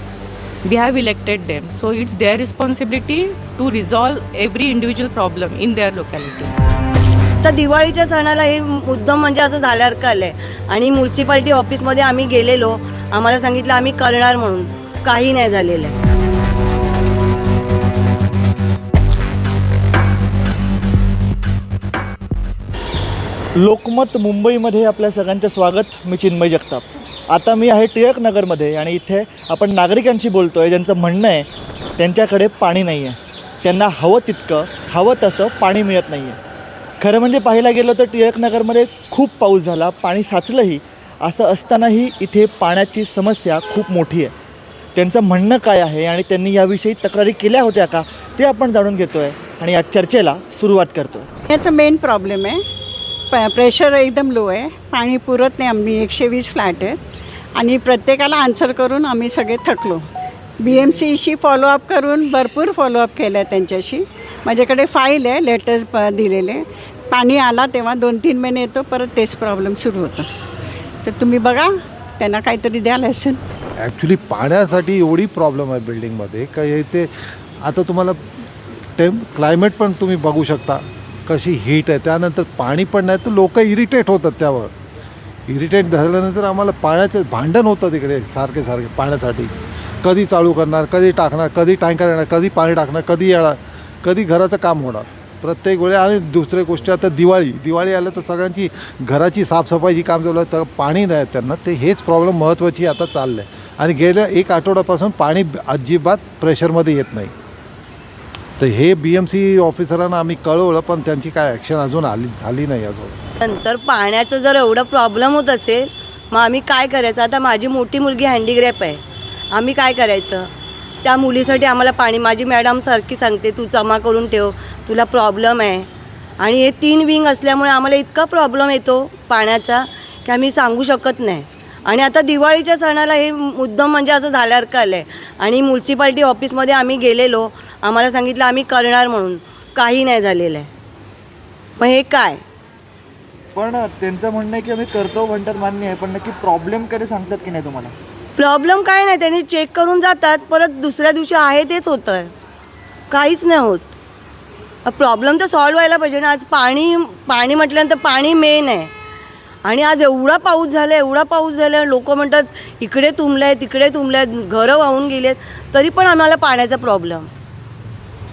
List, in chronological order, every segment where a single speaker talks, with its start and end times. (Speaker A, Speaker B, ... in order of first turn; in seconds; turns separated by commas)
Speaker A: 0.7-6.5, Speaker B: 7.4-15.9, Speaker C: 23.6-31.5, Speaker C: 32.0-36.4, Speaker C: 37.0-44.3, Speaker C: 45.0-51.3, Speaker D: 51.5-52.6, Speaker D: 53.3-57.0, Speaker D: 57.6-60.0, Speaker D: 60.6-70.3, Speaker D: 71.0-73.4, Speaker E: 73.8-78.2, Speaker E: 79.0-84.7, Speaker E: 85.5-107.3, Speaker E: 108.6-113.2, Speaker B: 113.4-119.0, Speaker B: 119.5-120.5, Speaker B: 121.0-125.9, Speaker B: 126.4-140.7, Speaker B: 141.8-142.4, Speaker C: 143.6-147.9, Speaker B: 148.4-152.3, Speaker B: 153.1-153.9, Speaker B: 154.8-158.9, Speaker B: 159.7-167.3